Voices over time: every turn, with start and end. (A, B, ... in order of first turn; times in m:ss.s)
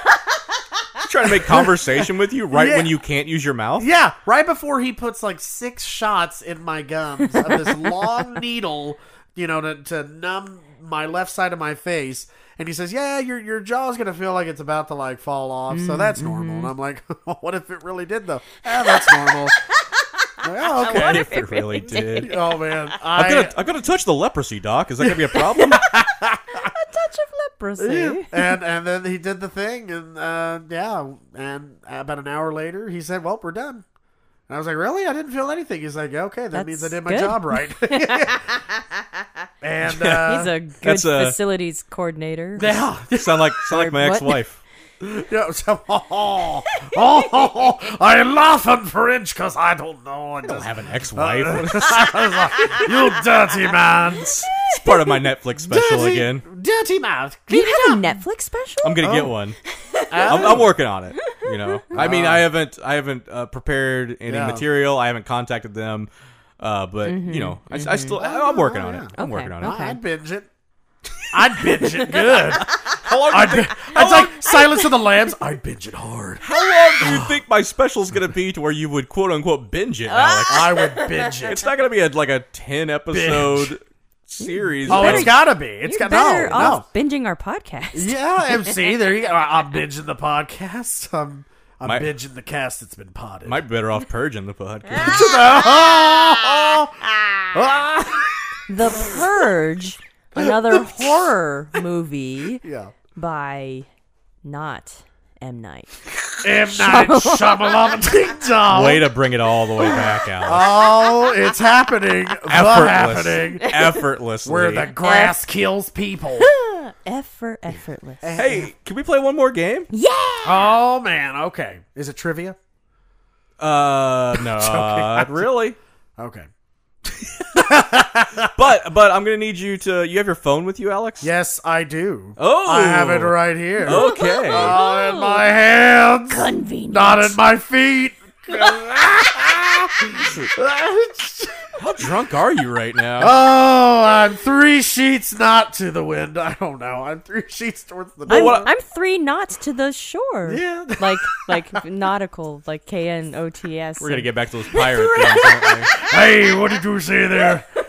0:01.0-0:03.9 A
0:01.3-0:02.9 B
0:03.8-0:19.6 B
0:15.7-0:16.7 C
0:20.4-0:21.3 B
0:20.7-0:22.7 C
0:20.9-0:22.3 A
0:22.2-0:23.6 B
0:23.1-0:25.9 A
0:25.0-0:26.7 B
0:26.5-0:28.4 C
0:27.8-0:33.8 B
0:34.5-0:38.5 B
0:36.5-0:38.4 C
0:39.6-0:40.5 B
0:39.8-0:41.4 A
0:40.2-0:42.8 C
0:42.6-0:43.6 B
0:43.1-0:44.6 A
0:43.7-0:44.4 C
0:45.0-0:54.5 B
0:46.7-0:47.4 C
0:50.4-0:52.1 A
0:54.2-0:56.5 A
0:54.5-0:55.1 C
0:55.6-0:58.2 B
0:57.5-0:59.2 C
0:58.8-0:59.6 A
0:59.0-0:59.3 B
1:00.0-1:00.6 C
1:00.1-1:00.8 B
1:00.2-1:09.8 A
1:01.3-1:01.8 C
1:01.9-1:02.5 B
1:04.3-1:04.7 B
1:07.0-1:08.2 C
1:08.2-1:10.5 B
1:09.2-1:10.0 C
1:11.3-1:17.4 B
1:12.8-1:14.4 A
1:13.9-1:15.1 C
1:16.4-1:25.4 A
1:20.1-1:21.5 C
1:20.5-1:21.7 B
1:23.1-1:23.7 B
1:24.4-1:28.6 C
1:24.9-1:26.8 B
1:26.5-1:26.8 A
1:27.9-1:33.6 B
1:31.8-1:32.1 A
1:33.4-1:35.3 A
1:34.9-1:39.3 B
1:38.7-1:42.6 C
1:40.3-1:41.3 B
1:42.6-1:42.9 B
1:43.2-1:43.9 C
1:44.4-1:47.9 C
1:46.4-1:49.1 B
1:48.7-1:50.7 A
1:49.9-1:53.8 B
1:52.5-1:54.9 A
1:54.4-1:56.5 B
1:55.0-1:55.4 C
1:56.4-1:58.4 C
1:58.2-1:58.7 B
1:58.4-1:59.9 A
1:59.9-2:00.8 C
2:00.4-2:02.6 B
2:03.6-2:05.8 A
2:04.3-2:05.5 B
2:06.2-2:06.5 B
2:07.5-2:08.5 B
2:07.5-2:07.8 A
2:08.5-2:11.3 A
2:11.2-2:21.8 B
2:12.4-2:14.8 A
2:13.8-2:15.5 C
2:16.3-2:17.4 C
2:21.8-2:23.4 A
2:23.2-2:28.7 B
2:28.3-2:34.3 C
2:28.3-2:28.7 A
2:30.5-2:31.4 B
2:34.0-2:35.9 A
2:34.7-2:37.7 B
2:35.0-2:36.0 C